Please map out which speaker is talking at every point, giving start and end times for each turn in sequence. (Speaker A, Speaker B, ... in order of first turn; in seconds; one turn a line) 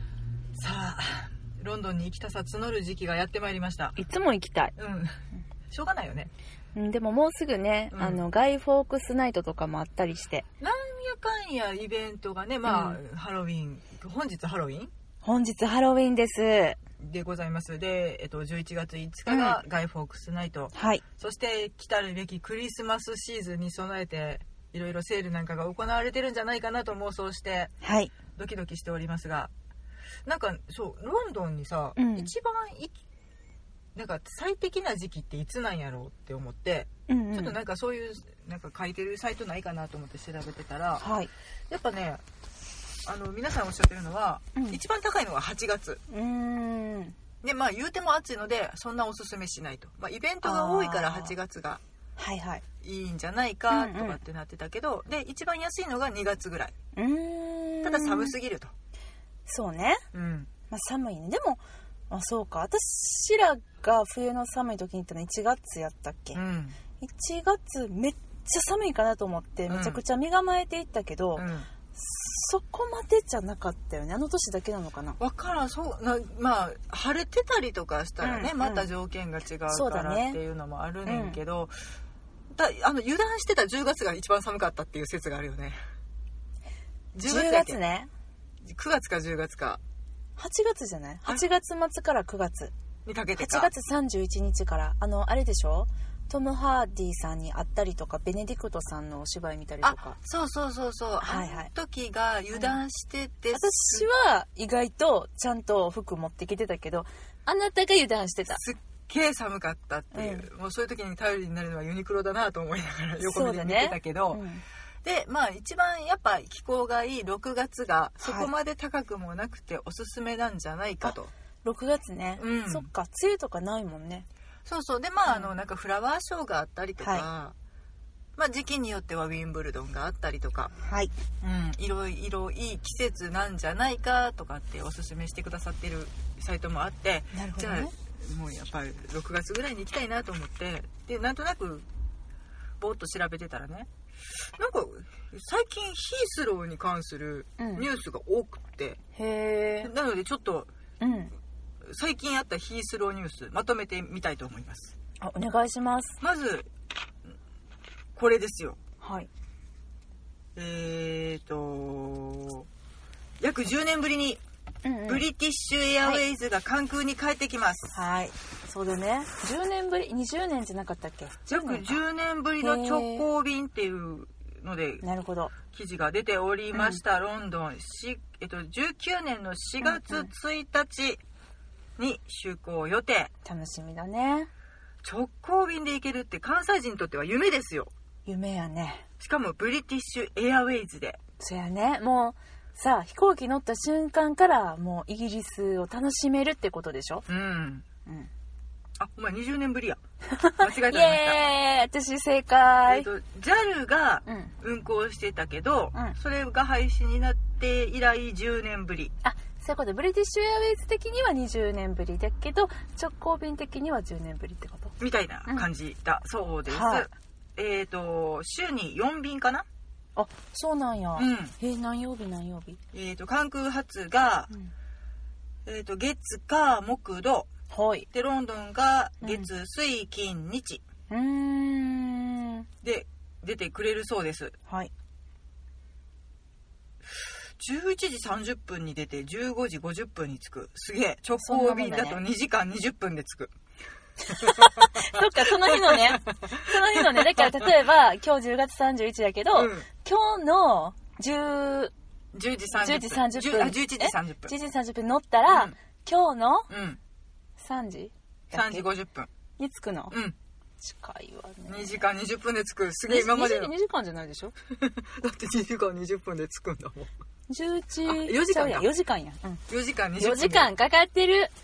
Speaker A: 0.5-4.0
Speaker B: 4.0-4.7
Speaker A: 4.8-5.1
Speaker A: 5.7-6.3
Speaker B: 6.7-10.5
Speaker A: 7.9-8.2
Speaker A: 10.6-14.9
Speaker B: 12.7-13.0
Speaker B: 15.2-16.8
Speaker A: 17.0-27.7
Speaker B: 19.3-19.6
Speaker B: 20.7-21.0
Speaker B: 27.8-28.1
Speaker A: 28.4-29.5
Speaker A: 30.2-33.0
Speaker B: 31.9-32.3
Speaker A: 33.9-41.0
Speaker B: 37.1-37.5
Speaker B: 41.0-41.3
Speaker A: 41.7-42.2
Speaker A: 43.0-46.0
Speaker B: 46.1-47.1
Speaker A: 47.4-51.8
Speaker B: 50.4-51.4
Speaker B: 52.2-52.6
Speaker A: 52.8-56.7
Speaker B: 53.7-54.2
Speaker B: 56.9-58.3
Speaker A: 57.8-58.7
Speaker B: 59.5-60.0
Speaker A: 60.1-60.5
Speaker B: 60.7-66.4
Speaker A: 66.3-66.8
Speaker B: 67.0-75.2
Speaker A: 69.7-70.0
Speaker A: 71.4-71.7
Speaker A: 75.2-81.7
Speaker B: 78.2-78.9
Speaker B: 79.7-80.4
Speaker B: 81.0-81.4
Speaker A: 82.5-85.8
Speaker A: 87.1-87.8
Speaker B: 87.2-88.1
Speaker A: 88.6-89.8
Speaker B: 90.4-92.7
Speaker A: 93.0-93.7
Speaker B: 93.4-100.2
Speaker A: 99.8-104.1
Speaker B: 101.2-101.7
Speaker B: 103.5-108.6
Speaker A: 108.5-114.4
Speaker B: 110.1-110.5
Speaker B: 113.2-114.6
Speaker A: 115.0-121.3
Speaker B: 118.2-118.5
Speaker B: 121.0-124.3
Speaker A: 122.4-122.9
Speaker A: 124.6-127.5
Speaker B: 125.3-125.5
Speaker B: 127.0-127.2
Speaker A: 128.3-130.7
Speaker B: 130.8-131.1
Speaker A: 131.4-141.9
Speaker B: 137.3-137.9
Speaker A: 142.8-143.9
Speaker A: 144.4-149.0
Speaker B: 147.6-147.9
Speaker B: 149.1-149.9
Speaker A: 149.8-150.7
Speaker B: 151.0-151.3
Speaker A: 151.8-154.9
Speaker B: 155.2-156.2
Speaker A: 156.2-156.7
Speaker A: 158.1-158.8
Speaker B: 159.0-159.3
Speaker A: 160.6-162.7
Speaker A: 163.4-164.4
Speaker B: 164.8-165.2
Speaker A: 165.1-167.9
Speaker B: 167.9-172.0
Speaker A: 171.5-175.0
Speaker B: 172.6-173.3
Speaker B: 175.0-175.5
Speaker A: 175.6-181.2
Speaker B: 176.7-177.0
Speaker B: 179.8-180.3
Speaker A: 182.0-183.3
Speaker B: 183.4-184.5
Speaker A: 185.0-187.9
Speaker B: 188.2-189.1
Speaker A: 189.2-191.2
Speaker B: 191.4-197.2
Speaker A: 197.3-197.8
Speaker A: 199.0-200.0
Speaker B: 200.3-203.1
Speaker A: 200.6-201.4
Speaker A: 202.8-209.1
Speaker B: 204.2-204.5
Speaker B: 209.2-214.9
Speaker A: 215.0-219.7
Speaker B: 216.7-217.1
Speaker B: 220.2-222.8
Speaker A: 221.2-221.5
Speaker A: 222.9-224.5
Speaker A: 225.6-227.5
Speaker B: 227.7-228.1
Speaker A: 228.1-230.8
Speaker B: 229.2-229.5
Speaker B: 231.1-232.7
Speaker A: 232.8-234.5
Speaker A: 237.6-243.5
Speaker B: 241.4-242.2
Speaker A: 244.3-247.7
Speaker B: 244.3-251.9
Speaker A: 249.5-249.9
Speaker A: 252.3-254.5
Speaker B: 252.7-256.7
Speaker A: 255.5-255.7
Speaker A: 256.7-257.0
Speaker B: 257.6-258.9
Speaker A: 258.5-259.3
Speaker B: 259.6-260.2
Speaker A: 260.1-260.4
Speaker B: 260.8-262.0
Speaker A: 261.7-263.7
Speaker B: 263.1-264.5
Speaker A: 264.7-267.1
Speaker B: 267.5-269.6
Speaker A: 268.1-268.9
Speaker A: 269.7-270.7
Speaker B: 270.2-271.5